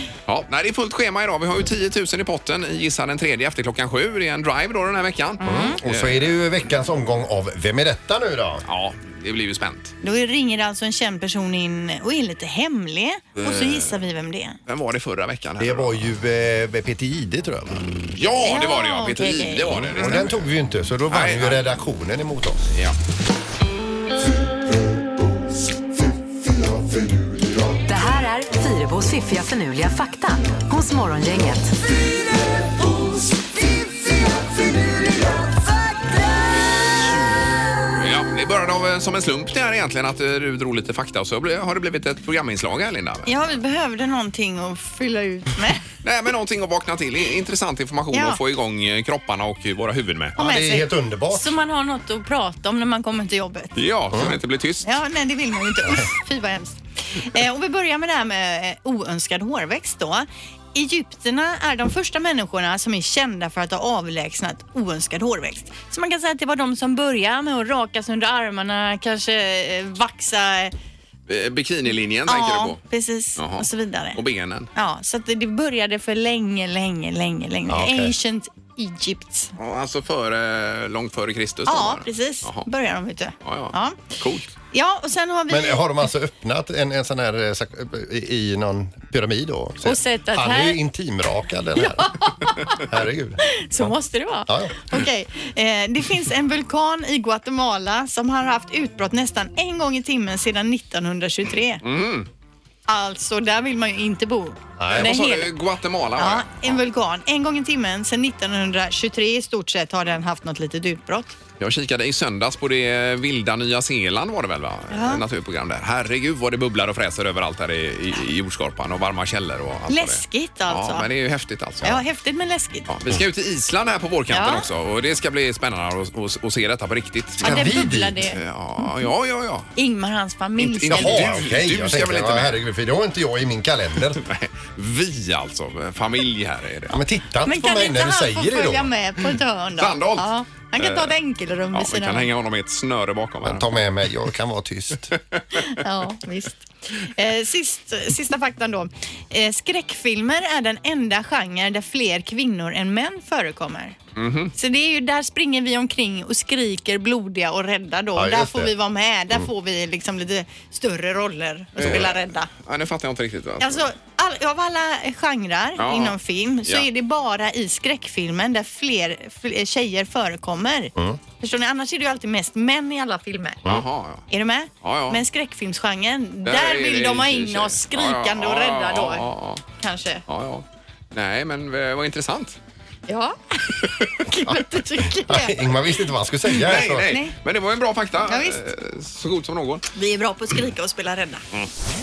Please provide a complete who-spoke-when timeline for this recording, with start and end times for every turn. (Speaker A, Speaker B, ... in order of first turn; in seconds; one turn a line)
Speaker A: 0.2-6.4
Speaker B: 5.4-5.8
Speaker C: 5.4-8.6
Speaker A: 8.6-9.9
Speaker B: 10.0-14.6
Speaker A: 13.4-14.0
Speaker A: 14.7-16.1
Speaker C: 15.6-18.0
Speaker A: 17.8-21.6
Speaker B: 18.4-19.9
Speaker C: 19.7-22.6
Speaker A: 22.7-22.9
Speaker D: 27.8-31.7
Speaker A: 37.9-43.4
Speaker B: 43.2-45.9
Speaker A: 46.0-50.4
Speaker B: 48.1-48.4
Speaker C: 50.4-51.5
Speaker B: 50.4-53.7
Speaker A: 53.7-55.0
Speaker B: 54.8-70.7
Speaker A: 71.3-72.8
Speaker B: 72.3-74.2
Speaker A: 73.4-74.7
Speaker B: 74.7-79.5
Speaker C: 77.7-78.1
Speaker A: 79.6-82.7
Speaker B: 81.7-84.1
Speaker A: 83.4-84.5
Speaker B: 84.7-85.8
Speaker C: 85.5-94.0
Speaker B: 89.8-90.8
Speaker B: 91.9-92.8
Speaker B: 93.4-101.8
Speaker C: 94.5-94.8
Speaker A: 101.8-102.3
Speaker B: 102.9-105.5
Speaker C: 104.8-105.1
Speaker A: 104.9-106.8
Speaker B: 106.2-111.3
Speaker A: 111.6-122.0
Speaker B: 114.9-115.2
Speaker B: 119.9-121.0
Speaker B: 121.8-122.9
Speaker A: 122.9-129.7
Speaker B: 124.3-124.7
Speaker C: 127.4-128.2
Speaker B: 127.4-128.4
Speaker B: 129.8-131.4
Speaker A: 130.6-132.6
Speaker C: 130.8-134.2
Speaker A: 134.1-137.0
Speaker C: 136.9-138.9
Speaker B: 137.4-142.3
Speaker A: 139.8-141.1
Speaker A: 141.7-143.7
Speaker C: 143.4-145.1
Speaker A: 145.1-145.7
Speaker B: 145.7-154.0
Speaker A: 154.2-154.5
Speaker B: 154.5-162.5
Speaker C: 158.2-158.7
Speaker A: 161.7-163.9
Speaker C: 161.8-162.1
Speaker B: 163.6-173.6
Speaker A: 165.8-166.8
Speaker A: 173.6-174.2
Speaker B: 174.3-179.3
Speaker A: 174.8-175.2
Speaker A: 176.4-179.6
Speaker B: 179.8-180.2
Speaker A: 180.2-182.6
Speaker B: 183.1-183.3
Speaker A: 183.8-184.1
Speaker B: 184.2-186.0
Speaker C: 184.4-187.1
Speaker A: 186.5-189.9
Speaker B: 187.1-187.3
Speaker B: 188.2-188.6
Speaker B: 189.9-191.4